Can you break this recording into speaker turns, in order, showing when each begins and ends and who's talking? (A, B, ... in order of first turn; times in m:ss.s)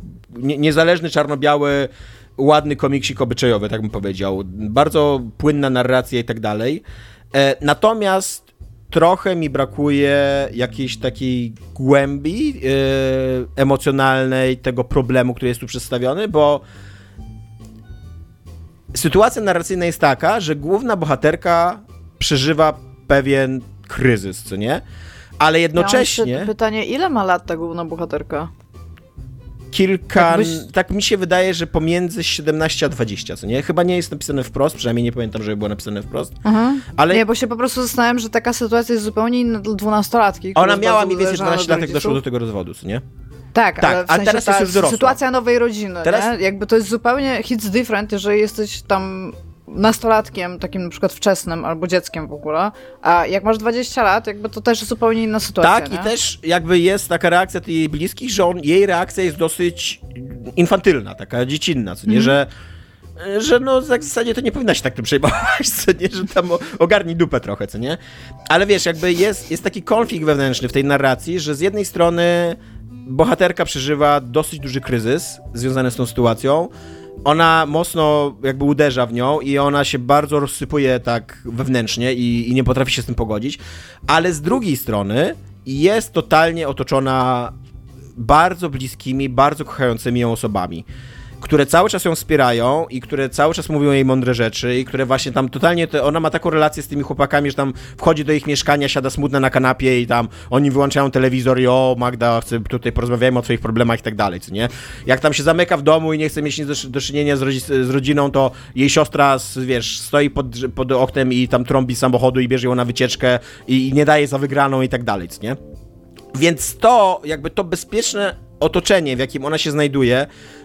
0:00.3-0:16.6 A
0:18.9-0:24.8 A
0:25.4-0:26.5 A
0:25.8-0:28.5 B
0:29.7-0:36.4 A
0:30.2-0:30.6 B
0:36.4-0:42.2 B
0:36.9-0:37.2 A
0:40.6-0:43.0 A
0:43.5-0:56.1 B
0:43.8-0:45.2 A
0:55.6-1:02.5 A
1:02.1-1:02.3 B
1:03.2-1:08.0 A
1:08.5-1:16.7 A
1:17.2-1:27.5 A
1:28.2-1:30.8 A
1:31.4-1:55.6 A
1:56.3-2:00.3 A